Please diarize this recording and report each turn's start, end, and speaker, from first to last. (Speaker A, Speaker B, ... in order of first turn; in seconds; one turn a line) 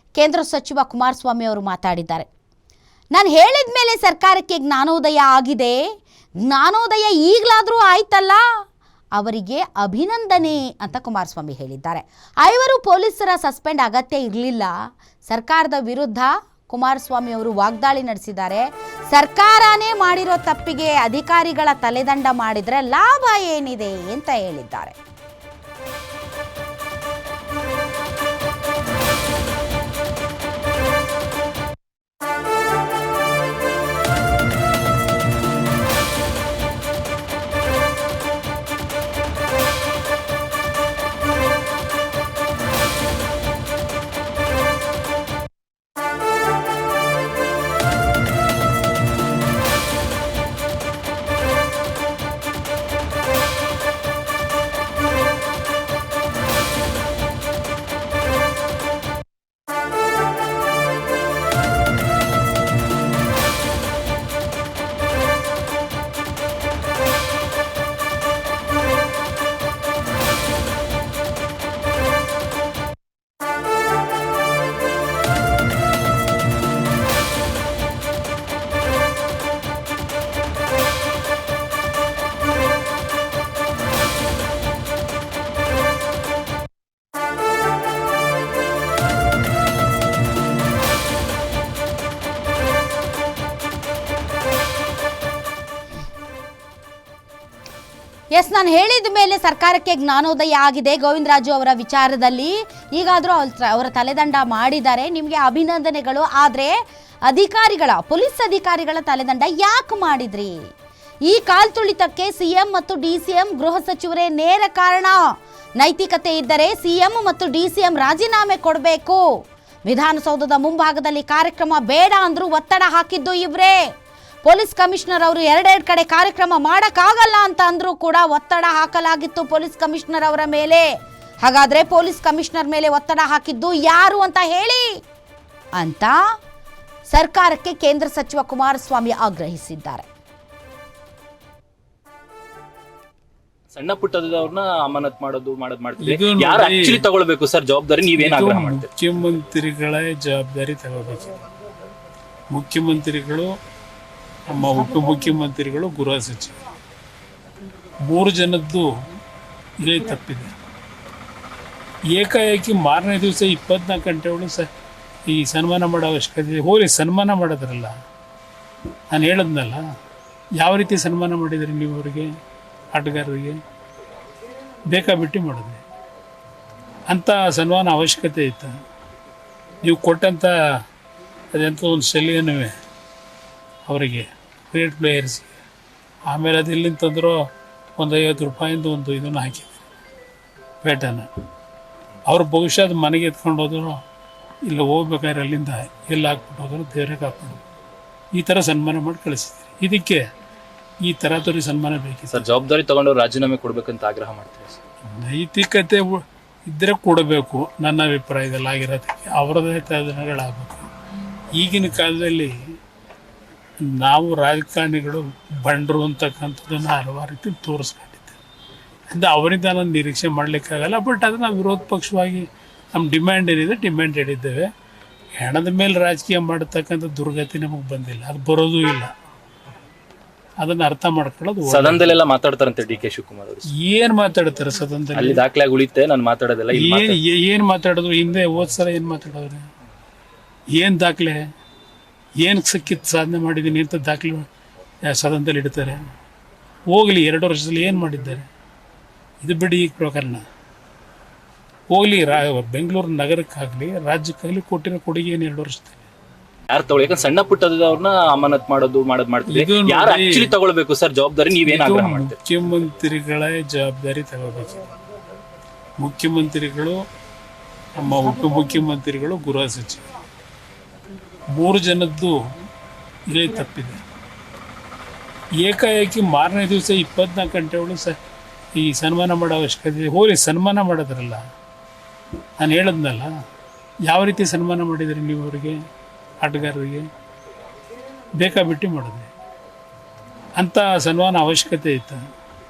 Speaker A: 0.2-2.3
Speaker A: 3.1-5.8
Speaker A: 6.5-8.4
Speaker A: 9.2-14.7
Speaker A: 15.3-25.0
Speaker A: 98.3-110.6
Speaker A: 111.3-115.2
Speaker A: 115.8-119.2
Speaker A: 119.9-123.8
Speaker A: 124.4-130.9
Speaker A: 131.4-135.0
Speaker A: 135.8-136.2
Speaker A: 137.1-140.1
Speaker B: 143.7-148.9
Speaker C: 146.0-147.0
Speaker C: 148.2-151.3
Speaker C: 152.5-153.5
Speaker C: 154.5-156.6
Speaker C: 158.1-158.9
Speaker C: 159.8-160.5
Speaker C: 162.2-164.7
Speaker C: 165.3-167.9
Speaker C: 169.1-169.8
Speaker C: 170.6-172.3
Speaker C: 172.9-173.6
Speaker C: 174.9-175.8
Speaker C: 177.1-178.7
Speaker C: 179.8-180.5
Speaker C: 181.5-182.7
Speaker C: 183.9-185.6
Speaker C: 186.3-187.4
Speaker C: 188.0-189.8
Speaker C: 190.8-191.3
Speaker C: 192.3-194.0
Speaker C: 194.7-197.6
Speaker C: 198.4-200.2
Speaker C: 201.1-202.5
Speaker B: 202.3-204.8
Speaker C: 205.1-210.9
Speaker C: 211.6-212.5
Speaker C: 213.8-218.4
Speaker C: 219.1-224.7
Speaker C: 225.4-229.1
Speaker C: 230.6-232.2
Speaker B: 231.7-233.7
Speaker C: 233.7-235.4
Speaker B: 235.2-237.2
Speaker C: 236.7-239.6
Speaker C: 240.7-241.4
Speaker C: 242.4-244.5
Speaker C: 245.1-246.0
Speaker C: 246.9-248.4
Speaker C: 249.4-250.4
Speaker C: 251.9-256.0
Speaker B: 256.7-262.4
Speaker C: 259.5-260.5
Speaker C: 261.6-264.8
Speaker C: 266.0-267.0
Speaker C: 267.9-270.0
Speaker C: 271.5-272.4
Speaker C: 273.3-274.0
Speaker C: 275.6-278.2
Speaker C: 278.8-281.4
Speaker C: 282.6-283.3
Speaker C: 284.1-285.8
Speaker C: 286.4-287.1
Speaker C: 288.4-289.3
Speaker C: 290.6-292.2